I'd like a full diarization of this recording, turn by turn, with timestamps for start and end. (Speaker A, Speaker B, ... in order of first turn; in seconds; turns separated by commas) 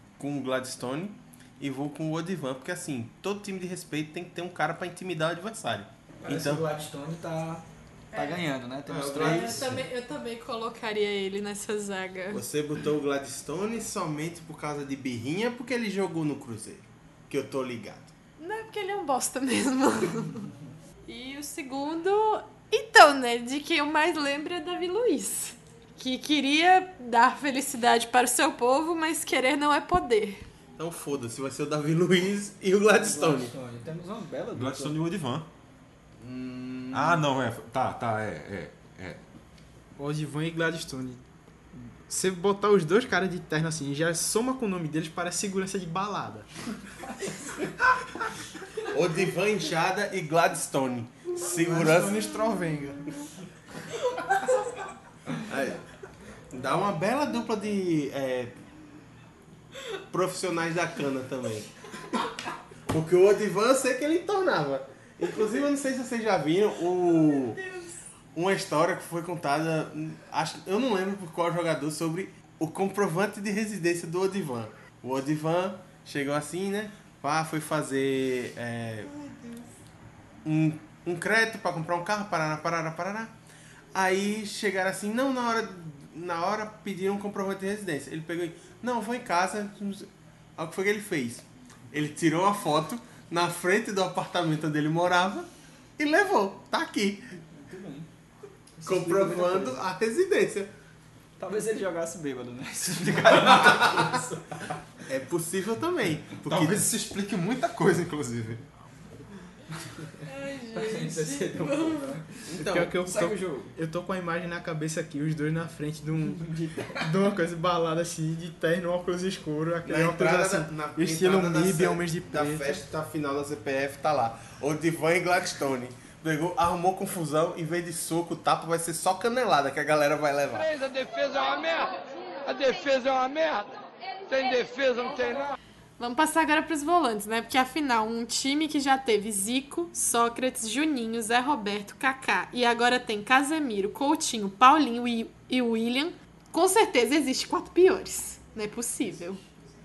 Speaker A: 0.2-6.7, Speaker B: 6.2-9.8, Speaker C: 8.1-8.4, Speaker A: 8.9-9.8, Speaker C: 9.1-12.4, Speaker A: 12.3-18.1, Speaker C: 18.4-20.5, Speaker C: 21.1-30.4, Speaker A: 30.8-33.5, Speaker B: 32.9-35.0, Speaker D: 34.5-35.5, Speaker A: 36.2-37.2, Speaker D: 36.9-39.2, Speaker E: 40.0-41.2, Speaker E: 42.1-46.5, Speaker A: 48.9-52.2, Speaker E: 51.5-53.0, Speaker A: 55.4-55.8, Speaker A: 56.5-58.5, Speaker A: 60.1-61.7, Speaker A: 62.9-67.6, Speaker C: 67.3-67.9, Speaker A: 68.3-79.1, Speaker A: 80.5-83.3, Speaker A: 83.9-97.3, Speaker B: 97.6-98.1, Speaker B: 98.8-99.8, Speaker A: 98.8-100.7, Speaker B: 101.4-104.4, Speaker A: 105.1-106.9, Speaker D: 106.5-108.6, Speaker C: 110.3-112.1, Speaker B: 110.7-113.7, Speaker A: 112.5-112.9, Speaker E: 112.6-122.8, Speaker B: 116.2-117.1, Speaker A: 119.8-130.7, Speaker F: 130.5-135.6, Speaker C: 136.0-149.4